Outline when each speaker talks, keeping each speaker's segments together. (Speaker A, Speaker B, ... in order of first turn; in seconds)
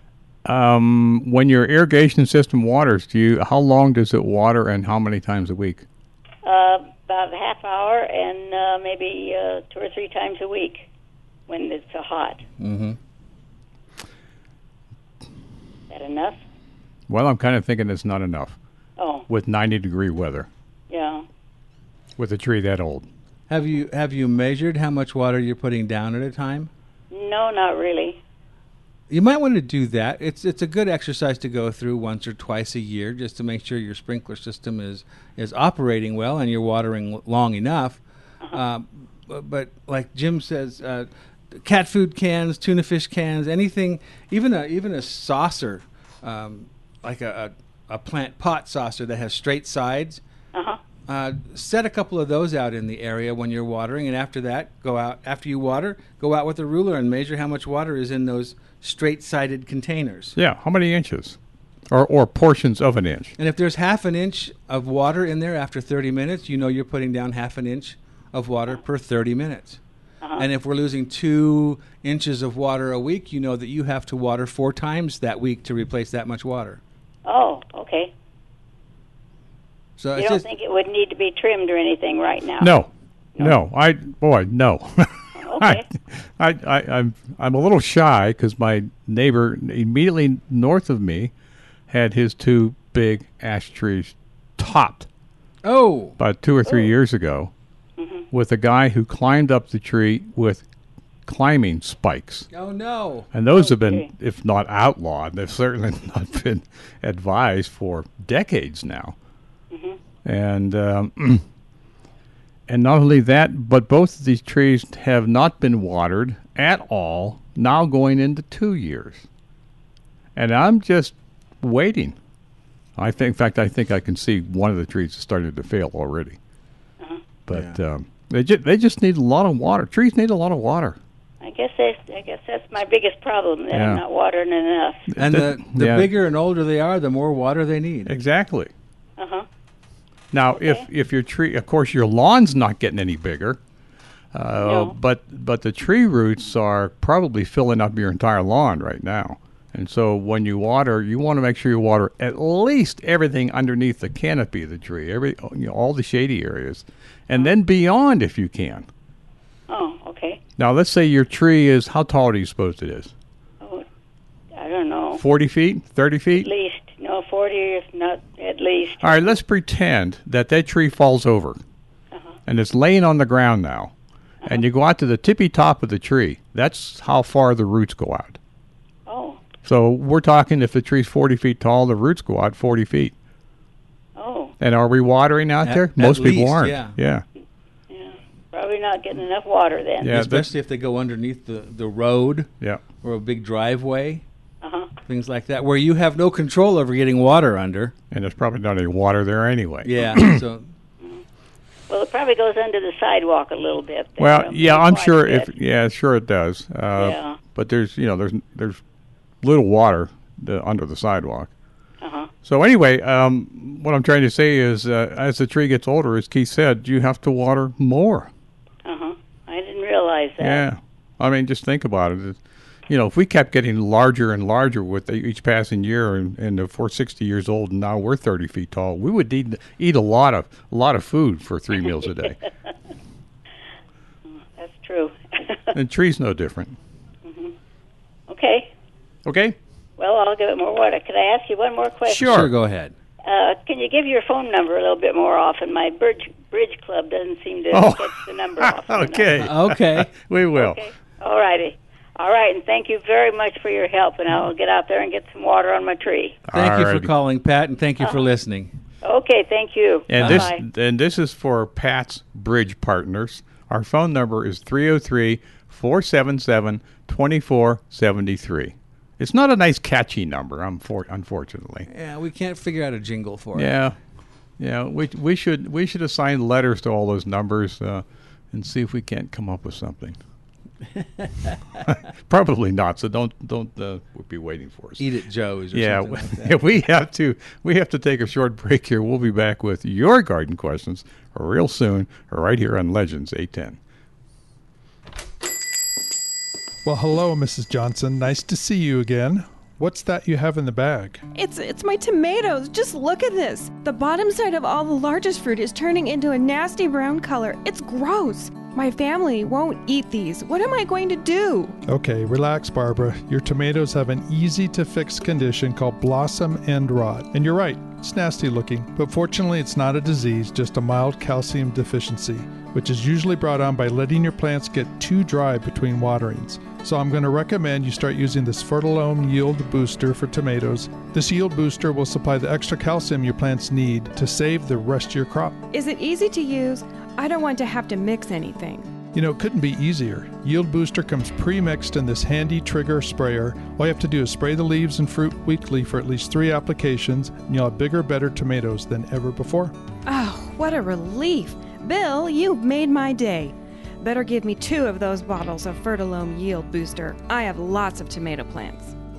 Speaker A: 0.4-5.8, 17.1-18.6, 19.3-20.5, 22.2-23.1, 60.4-61.4, 61.9-63.3, 82.6-91.3, 91.9-95.1, 96.2-97.5, 98.3-100.6, 101.2-102.5, 103.3-109.1, 110.2-111.4, 112.7-119.2, 120.3-122.2, 123.0-126.4, 127.5-131.0, 133.7-134.0, 135.2-136.1, 138.1-138.7, 140.3-143.6, 144.3-158.9, 160.6-163.1, 165.1-166.5, 169.0-171.6, 172.5-173.9, 174.4-178.4, 179.6-183.1, 184.6-187.2, 190.0-190.5, 192.6-192.8, 198.1-200.4, 204.2-208.8, 209.4-211.5, 212.4-218.3, 220.4-232.4, 235.7-236.8, 239.2-239.6, 242.1-242.5, 247.7-250.8, 256.5-257.1, 260.1-271.9, 273.5-273.9, 274.6-280.2, 281.9-285.0, 285.7-293.8
Speaker B: 6.4-10.8, 11.5-12.4, 15.9-16.4, 19.0-19.2, 20.9-21.2, 27.1-28.2, 50.5-50.8, 77.2-78.1, 80.1-82.8, 85.4-85.8, 98.0-98.2, 103.5-104.1, 109.7-110.0, 131.4-135.1, 139.2-139.4, 140.6-140.8, 144.6-144.9, 159.7-160.4, 164.5-165.2, 166.4-169.4, 179.1-179.4, 184.2-184.5, 187.9-190.1, 194.6-194.9, 201.9-205.5, 206.9-207.4, 212.0-212.3, 218.8-220.6, 234.6-235.7, 237.2-237.5, 238.3-238.7, 240.0-242.3, 243.2-249.3, 250.5-256.4, 259.0-260.6
Speaker C: 12.6-13.0, 23.5-26.7, 29.1-38.0, 38.5-50.2, 51.1-60.4, 63.4-69.8, 70.4-76.8, 80.0-80.5, 95.6-96.2, 102.5-103.3, 127.5-127.8, 135.2-138.1, 185.6-186.9, 190.1-194.2, 195.1-197.9, 199.8-200.7, 242.1-242.9, 249.4-250.1, 256.5-258.7, 260.2-260.5, 271.9-273.7, 281.0-281.6, 285.0-286.6
Speaker D: 296.8-301.2, 311.9-335.6, 339.1-349.7
Speaker E: 301.3-311.8, 335.7-338.9, 350.1-358.9